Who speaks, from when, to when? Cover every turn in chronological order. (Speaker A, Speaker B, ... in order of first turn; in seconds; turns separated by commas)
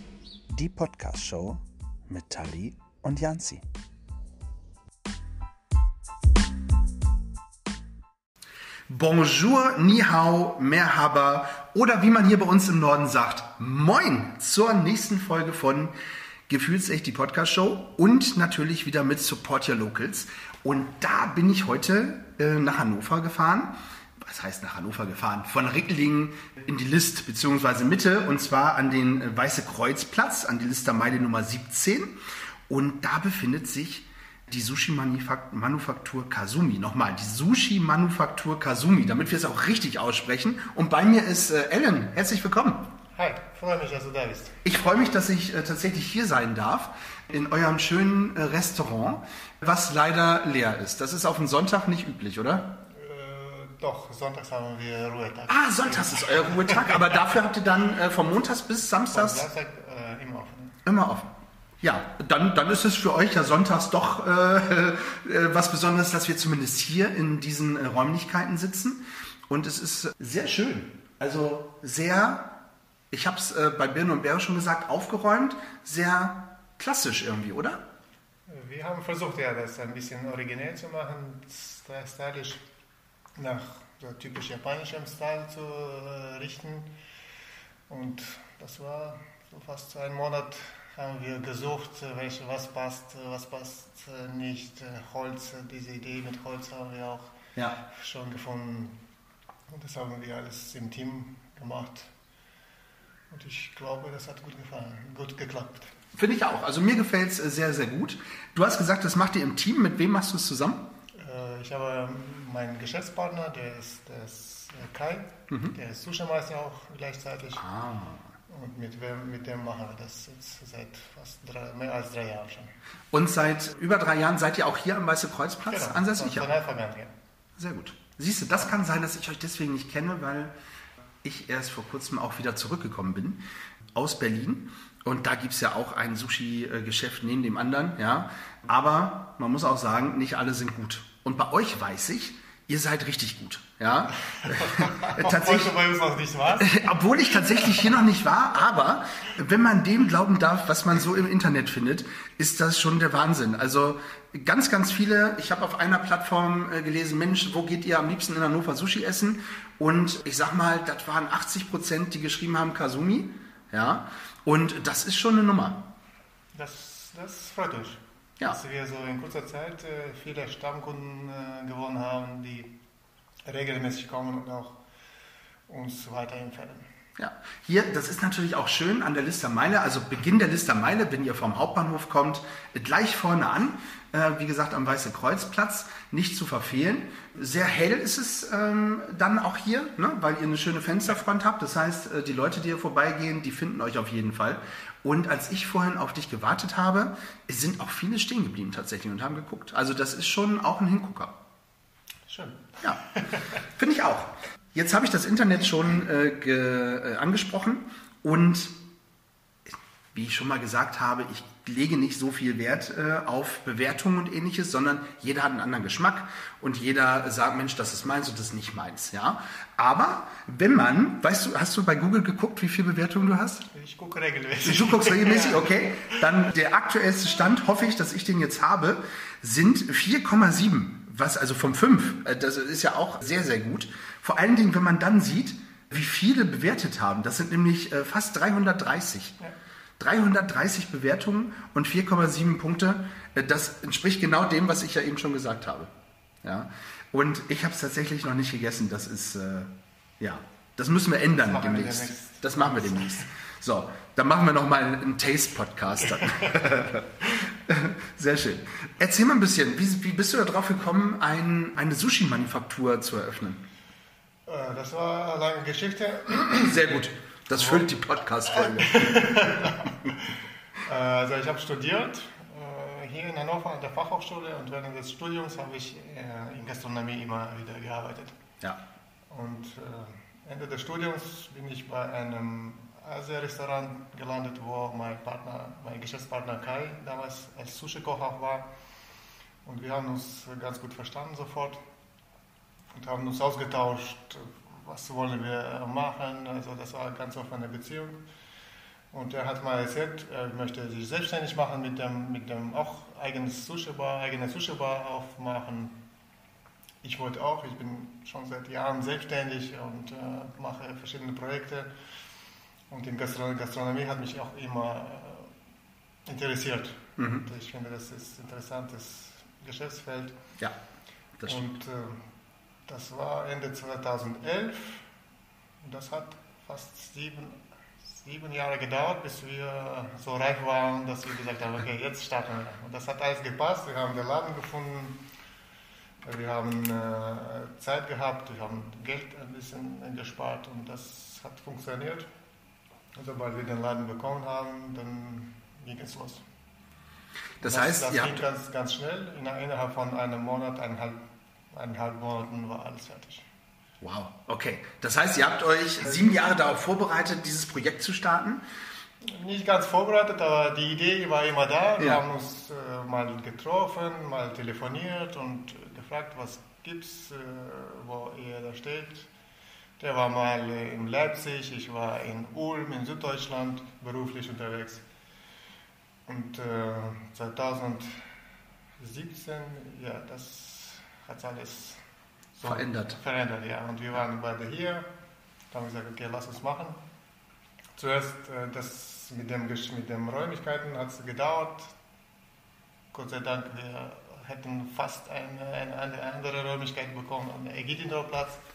Speaker A: 0.5-3.6, Speaker A: 8.9-15.9, Speaker A: 16.5-32.2, Speaker A: 32.7-42.9, Speaker B: 43.1-44.6, Speaker A: 44.6-52.8, Speaker B: 52.9-57.2, Speaker A: 55.5-59.5, Speaker B: 59.1-60.8, Speaker A: 60.8-72.6, Speaker A: 73.1-77.8, Speaker B: 78.5-82.6, Speaker B: 83.3-86.9, Speaker B: 87.9-99.0, Speaker B: 99.7-102.1, Speaker B: 103.3-105.9, Speaker A: 106.1-110.9, Speaker B: 111.1-117.7, Speaker A: 117.6-118.3, Speaker B: 118.5-122.7, Speaker A: 123.1-126.5, Speaker B: 125.7-127.1, Speaker A: 127.6-130.5, Speaker A: 131.2-133.4, Speaker A: 133.9-145.7, Speaker B: 144.3-146.9, Speaker A: 146.6-165.9, Speaker B: 147.5-147.8, Speaker B: 166.5-172.7, Speaker B: 173.4-174.8, Speaker B: 175.7-176.9, Speaker A: 177.2-201.3, Speaker B: 202.3-203.5, Speaker A: 203.7-208.8, Speaker A: 210.1-223.7, Speaker B: 223.7-226.2, Speaker A: 224.6-239.4, Speaker A: 240.0-245.9, Speaker A: 246.4-263.6, Speaker B: 251.3-253.2, Speaker B: 256.2-256.6, Speaker B: 264.4-266.8, Speaker A: 266.3-269.5, Speaker B: 267.6-267.9, Speaker B: 268.5-278.4, Speaker B: 279.3-288.7, Speaker B: 289.6-291.8, Speaker B: 292.9-298.2, Speaker B: 299.1-306.0, Speaker B: 307.0-311.9, Speaker B: 312.9-315.5, Speaker B: 316.2-320.4, Speaker A: 317.2-317.4, Speaker A: 321.4-321.7, Speaker B: 321.4-322.3, Speaker B: 322.9-325.1, Speaker B: 325.8-335.2, Speaker B: 336.2-342.3, Speaker B: 343.1-346.4, Speaker A: 347.6-348.5, Speaker B: 347.6-353.4, Speaker A: 354.0-358.6, Speaker B: 359.2-369.3, Speaker B: 370.0-375.0, Speaker B: 376.3-378.2, Speaker B: 379.0-382.0, Speaker B: 382.6-385.1, Speaker A: 382.6-383.2, Speaker B: 385.7-387.0, Speaker B: 388.0-391.9, Speaker B: 393.1-398.6